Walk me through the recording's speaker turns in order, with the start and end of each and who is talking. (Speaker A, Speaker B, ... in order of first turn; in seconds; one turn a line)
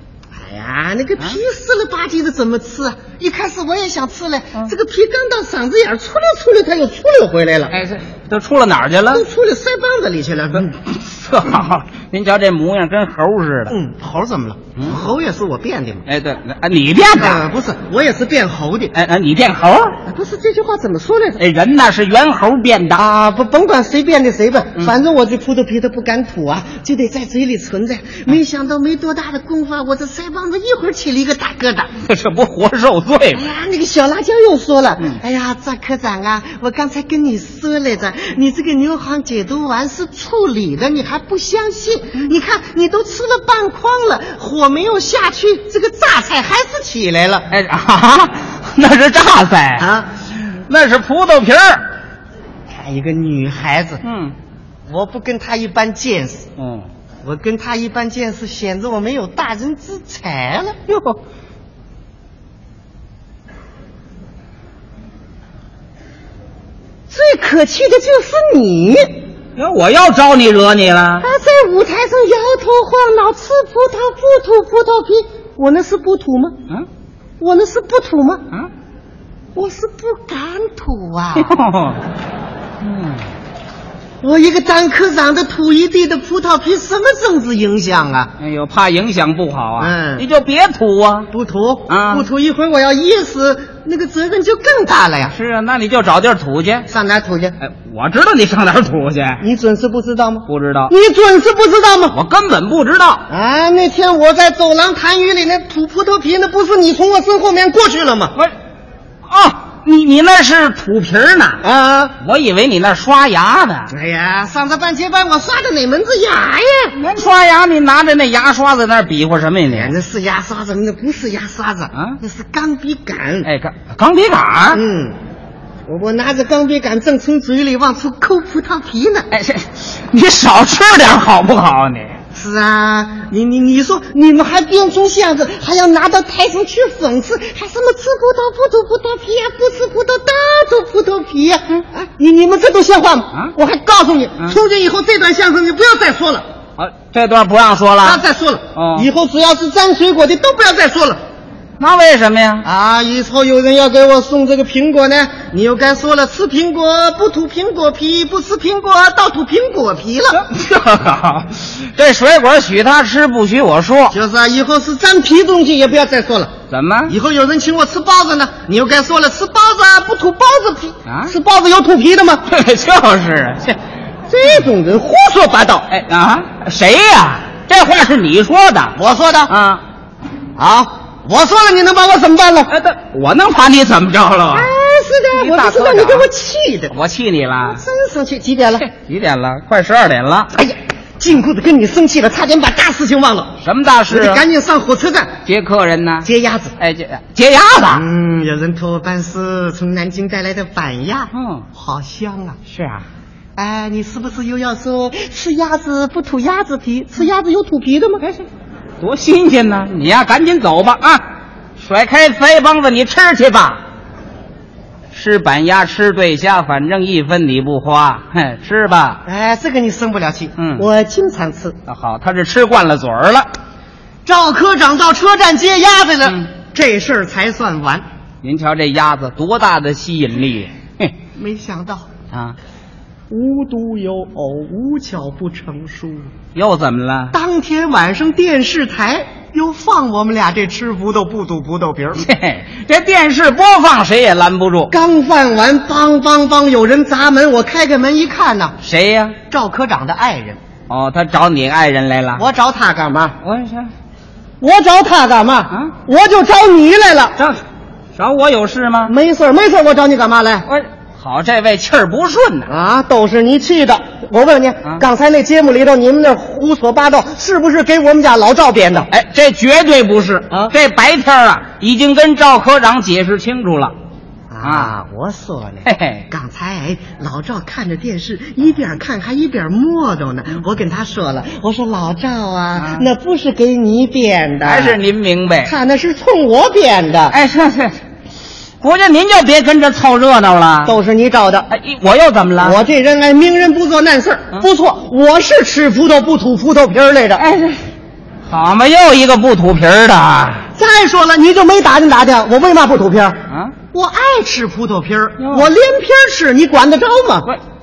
Speaker A: 0.3-7.7
Speaker B: 7.7-9.2
Speaker A: 9.1-10.7
Speaker B: 10.6-13.7
Speaker A: 13.7-16.0
Speaker B: 16.1-17.4
Speaker A: 17.1-18.9
Speaker B: 18.9-19.9
Speaker A: 20.1-21.4
Speaker B: 21.4-23.0
Speaker A: 22.9-31.9
Speaker B: 32.0-33.5
Speaker A: 33.3-47.5
Speaker B: 47.5-51.8
Speaker A: 49.8-50.1
Speaker A: 52.7-54.0
Speaker B: 54.0-54.3
Speaker A: 54.9-56.5
Speaker B: 56.6-56.9
Speaker A: 57.2-60.9
Speaker A: 67.1-69.2
Speaker B: 69.5-71.3
Speaker A: 71.2-76.5
Speaker A: 77.4-78.4
Speaker A: 79.5-81.5
Speaker B: 81.4-82.0
Speaker B: 82.8-83.2
Speaker A: 84.2-88.3
Speaker B: 88.4-91.3
Speaker A: 89.8-90.2
Speaker A: 91.3-95.3
Speaker B: 91.9-92.3
Speaker B: 95.3-96.9
Speaker A: 96.9-97.5
Speaker B: 97.6-99.4
Speaker A: 99.4-102.2
Speaker B: 100.5-100.9
Speaker B: 102.1-103.2
Speaker A: 103.3-108.3
Speaker B: 109.3-111.6
Speaker A: 111.6-112.1
Speaker B: 112.2-113.9
Speaker A: 113.9-117.0
Speaker B: 116.9-119.9
Speaker A: 119.7-123.5
Speaker B: 123.4-124.8
Speaker A: 124.7-125.1
Speaker A: 125.8-129.3
Speaker B: 129.3-132.2
Speaker A: 132.3-146.4
Speaker B: 146.8-148.2
Speaker A: 148.0-151.2
Speaker B: 148.7-149.1
Speaker B: 151.8-152.7
Speaker A: 152.6-160.4
Speaker B: 160.3-164.2
Speaker A: 164.1-166.5
Speaker B: 166.7-167.1
Speaker A: 167.1-172.4
Speaker B: 171.1-171.3
Speaker B: 172.5-173.8
Speaker A: 174.3-175.9
Speaker B: 175.9-178.9
Speaker A: 178.9-179.5
Speaker B: 179.5-179.8
Speaker A: 180.6-182.7
Speaker B: 182.7-184.7
Speaker A: 184.5-186.9
Speaker B: 185.3-186.2
Speaker B: 186.9-187.8
Speaker A: 187.6-188.8
Speaker B: 188.8-190.5
Speaker A: 190.5-193.6
Speaker B: 193.6-194.4
Speaker A: 194.1-195.3
Speaker B: 195.4-198.0
Speaker A: 196.2-196.7
Speaker A: 197.9-202.6
Speaker B: 201.3-201.6
Speaker B: 202.7-203.1
Speaker A: 203.6-208.2
Speaker B: 209.0-211.2
Speaker B: 211.8-213.8
Speaker B: 215.1-219.2
Speaker A: 219.2-221.8
Speaker B: 220.6-220.9
Speaker B: 221.9-223.5
Speaker A: 224.2-228.0
Speaker B: 228.4-231.1
Speaker A: 231.3-232.1
Speaker A: 233.3-236.3
Speaker B: 236.5-237.3
Speaker A: 237.3-242.2
Speaker B: 242.2-244.9
Speaker A: 244.9-248.8
Speaker B: 248.8-249.3
Speaker A: 249.5-250.6
Speaker B: 250.9-252.4
Speaker A: 252.3-253.3
Speaker B: 253.4-253.9
Speaker A: 254.6-257.4
Speaker B: 258.1-259.1
Speaker A: 259.1-260.7
Speaker B: 260.6-262.7
Speaker A: 262.7-269.1
Speaker B: 269.1-273.9
Speaker A: 274.5-285.0
Speaker B: 274.6-274.9
Speaker B: 275.8-276.2
Speaker B: 282.8-283.1
Speaker B: 284.6-285.7
Speaker A: 285.6-287.4
Speaker B: 287.3-287.9
Speaker B: 288.8-290.9
Speaker A: 290.8-291.7
Speaker B: 291.7-292.8
Speaker A: 292.6-297.4
Speaker B: 297.4-297.8
Speaker B: 298.5-300.6
Speaker A: 300.8-303.4
Speaker B: 303.5-303.7
Speaker A: 303.9-307.5
Speaker B: 305.4-305.7